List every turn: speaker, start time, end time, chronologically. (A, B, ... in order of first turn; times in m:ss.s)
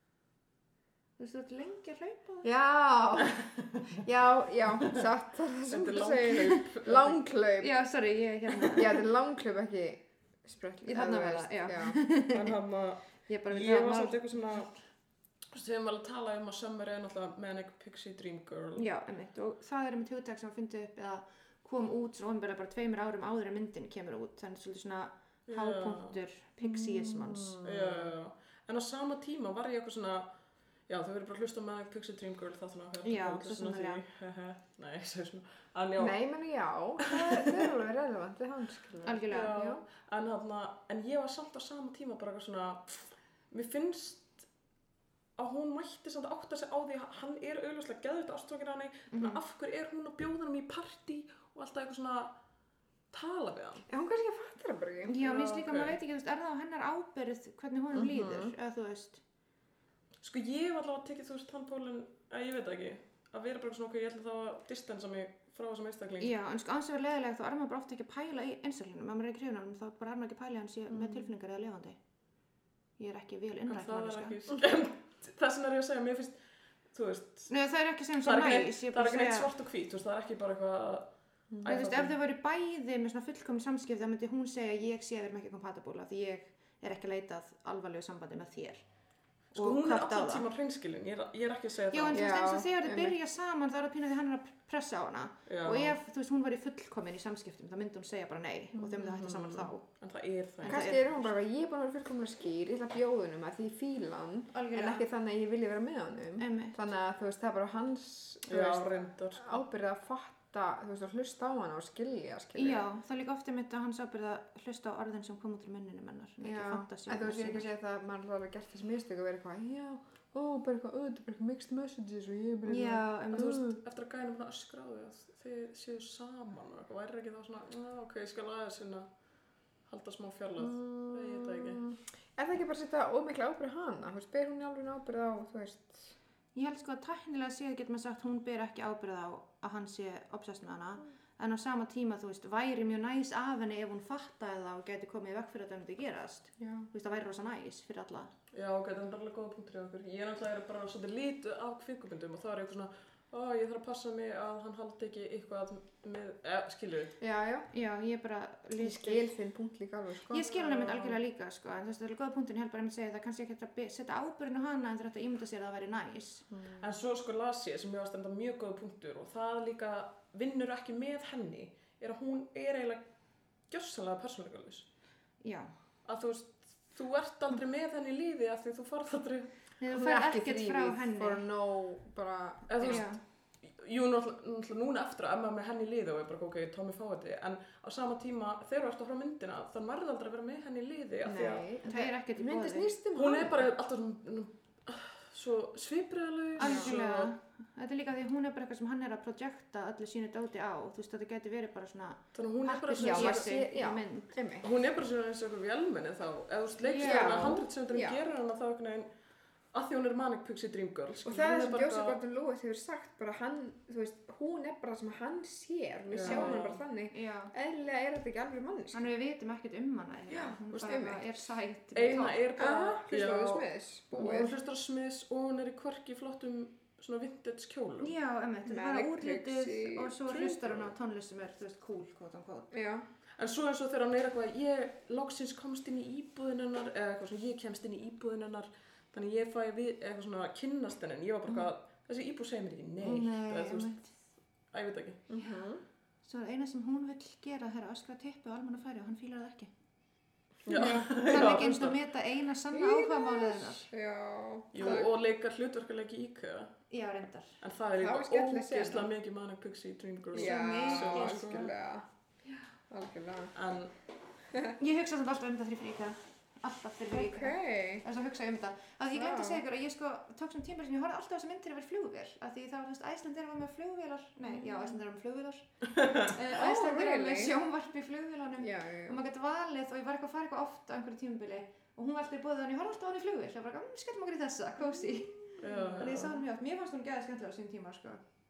0:01.2-0:02.5 A
0:02.4-0:07.8 B
0:05.7-0:07.2 C
0:07.6-0:09.0 A
0:08.7-0:12.0 B
0:10.8-0:12.5 A
0:12.2-0:14.8 C
0:13.2-0:14.2 A
0:15.5-0:18.8 C
0:18.8-0:27.6 A
0:25.5-0:26.2 C
0:26.6-0:28.1 B
0:27.6-0:30.3 C
0:30.9-0:36.2 C
0:33.0-0:34.0 A
0:36.0-0:39.8 B
0:37.0-0:37.7 C
0:39.0-0:39.6 A
0:39.3-0:44.5 C
0:45.4-0:52.4 C
0:49.1-0:49.4 A
0:53.1-0:53.8 C
0:53.9-0:55.2 B
0:55.0-0:59.2 A
0:55.2-0:56.0 C
0:57.9-0:58.5 B
1:00.2-1:06.3 C
1:06.2-1:12.0 A
1:10.9-1:11.3 B
1:13.0-1:14.4 A
1:13.7-1:16.4 C
1:16.9-1:17.5 C
1:17.5-1:19.5 A
1:18.2-1:22.1 C
1:21.5-1:21.8 B
1:21.6-1:28.8 A
1:29.5-1:30.4 A
1:29.5-1:32.2 C
1:31.9-1:39.8 A
1:32.1-1:33.2 B
1:35.5-1:36.0 C
1:39.1-1:41.2 C
1:40.6-1:41.1 A
1:40.6-1:52.8 B
1:44.5-1:45.0 A
1:46.4-1:46.8 A
1:48.5-1:49.6 C
1:52.5-1:57.7 A
1:56.4-2:03.8 B
2:02.6-2:03.6 A
2:03.3-2:09.1 C
2:09.8-2:11.9 C
2:10.6-2:16.2 B
2:16.5-2:28.3 A
2:26.6-2:26.9 B
2:28.5-2:37.2 C
2:37.2-2:37.7 B
2:37.7-2:39.3 A
2:38.8-2:41.2 B
2:40.3-2:46.4 A
2:46.5-2:46.8 B
2:46.8-2:53.0 C
2:53.7-2:54.9 C
2:55.4-2:55.7 A
2:56.0-2:59.5 C
2:59.8-3:01.5 A
2:59.9-3:03.1 B
3:02.7-3:03.1 C
3:02.8-3:03.2 A
3:03.6-3:11.7 C
3:11.2-3:13.7 B
3:11.8-3:12.9 A
3:13.1-3:17.3 C
3:16.6-3:24.3 A
3:16.6-3:16.9 B
3:22.3-3:23.5 C
3:22.9-3:24.7 B
3:24.6-3:29.1 C
3:26.8-3:27.6 A
3:27.0-3:28.3 B
3:29.7-3:32.2 C
3:31.2-3:39.0 B
3:36.1-3:36.8 C
3:36.2-3:37.5 A
3:38.9-3:42.4 A
3:40.3-3:41.2 B
3:41.9-3:48.1 C
3:42.6-3:44.5 B
3:48.0-3:52.7 A
3:48.6-3:50.7 B
3:52.7-3:53.0 B
3:53.4-4:04.0 C
4:03.0-4:04.1 A
4:04.7-4:05.2 C
4:05.3-4:05.8 B
4:06.2-4:09.7 A
4:10.6-4:12.0 C
4:10.7-4:11.2 B
4:10.8-4:13.9 A
4:12.7-4:15.1 B
4:14.7-4:16.8 C
4:16.9-4:17.6 A
4:17.6-4:21.7 C
4:18.0-4:19.1 B
4:20.3-4:22.1 B
4:20.3-4:21.7 A
4:22.9-4:23.5 B
4:23.5-4:23.9 C
4:24.8-4:48.2 A
4:27.1-4:28.0 B
4:29.1-4:29.6 B
4:34.5-4:35.0 B
4:36.5-4:37.5 B
4:38.6-4:39.2 B
4:45.2-4:46.3 B
4:45.6-4:46.4 C